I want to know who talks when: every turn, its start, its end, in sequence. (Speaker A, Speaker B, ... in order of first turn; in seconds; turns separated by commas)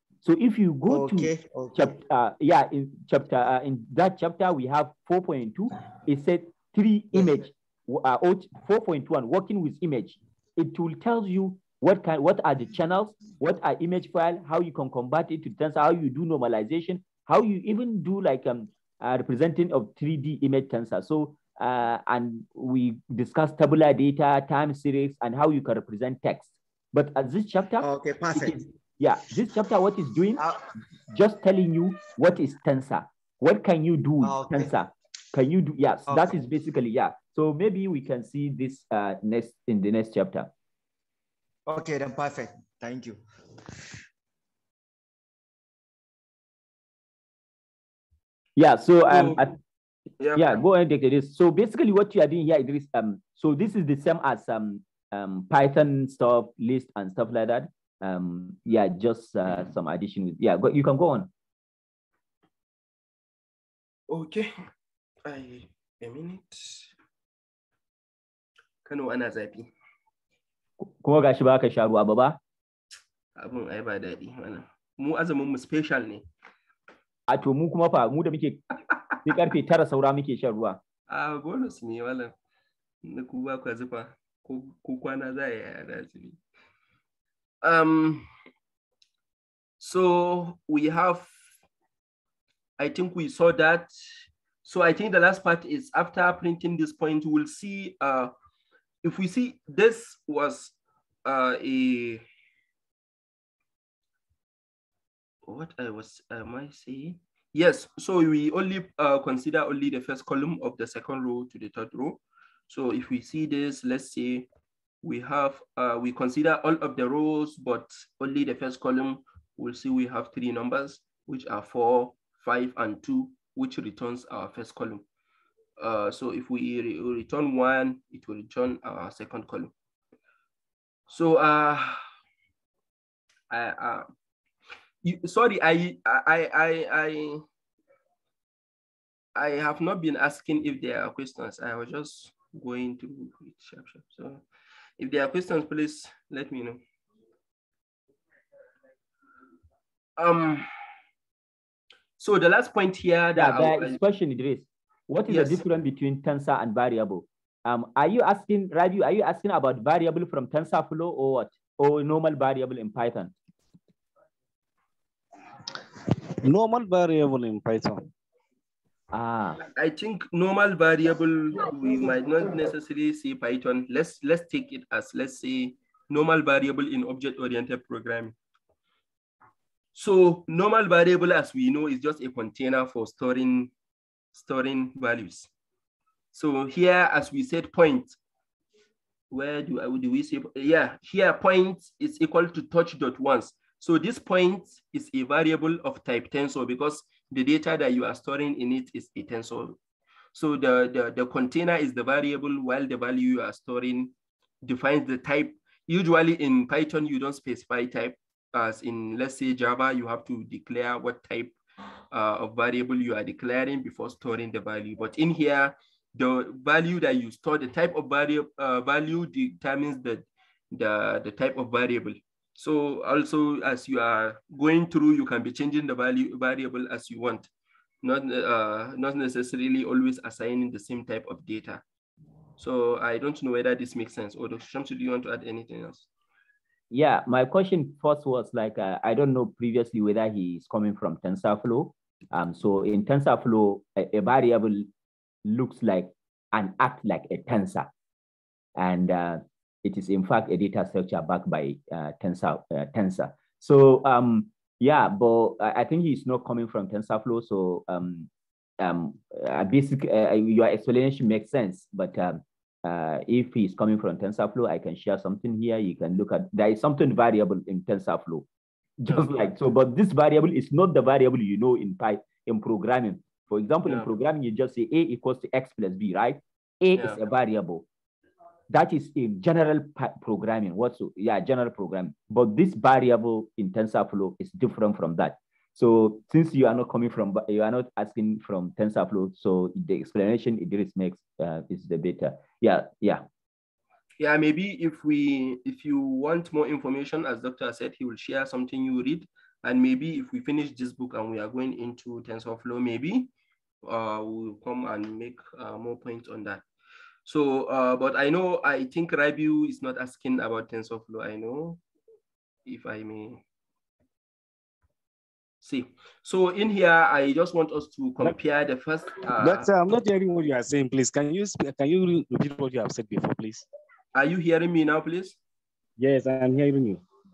Speaker A: 0.2-30.4, Speaker B: 0.9-1.9, Speaker B: 27.8-28.7, Speaker A: 31.1-40.5, Speaker B: 34.2-34.7, Speaker B: 36.1-36.4, Speaker B: 41.7-43.2, Speaker A: 48.6-49.5, Speaker C: 49.1-49.5, Speaker C: 50.2-50.6, Speaker A: 50.4-61.3, Speaker C: 64.1-64.5, Speaker C: 65.2-66.9, Speaker C: 68.9-69.7, Speaker A: 70.8-72.4, Speaker C: 73.4-76.2, Speaker A: 77.3-78.6, Speaker A: 79.2-80.8, Speaker C: 81.1-82.3, Speaker C: 83.0-86.4, Speaker C: 87.6-88.3, Speaker C: 89.8-91.3, Speaker C: 92.8-93.9, Speaker C: 94.6-98.3, Speaker C: 99.0-102.2, Speaker C: 105.5-114.5, Speaker C: 115.0-125.0, Speaker C: 125.8-129.7, Speaker C: 131.1-132.0, Speaker C: 133.5-134.1, Speaker C: 135.0-137.4, Speaker C: 139.3-144.4, Speaker C: 145.0-146.8, Speaker C: 150.2-150.7, Speaker C: 152.2-154.0, Speaker A: 153.4-163.3, Speaker C: 155.3-155.6, Speaker D: 166.4-168.1, Speaker A: 169.1-169.6, Speaker C: 169.8-178.4, Speaker C: 179.9-183.7, Speaker C: 184.3-185.5, Speaker C: 186.3-188.2, Speaker C: 189.3-199.8, Speaker C: 200.3-204.1, Speaker C: 204.6-211.6, Speaker C: 212.1-227.5, Speaker C: 228.0-231.8, Speaker C: 232.6-236.1, Speaker A: 236.9-244.9, Speaker A: 245.4-247.9, Speaker A: 248.8-258.3, Speaker A: 258.8-268.4, Speaker A: 269.0-277.9, Speaker C: 269.1-269.3, Speaker A: 278.7-293.2, Speaker C: 294.2-303.3, Speaker C: 303.8-306.6, Speaker C: 307.3-311.8, Speaker C: 312.7-313.4, Speaker C: 315.6-319.7, Speaker D: 319.3-323.7, Speaker C: 324.1-325.4, Speaker D: 326.0-327.0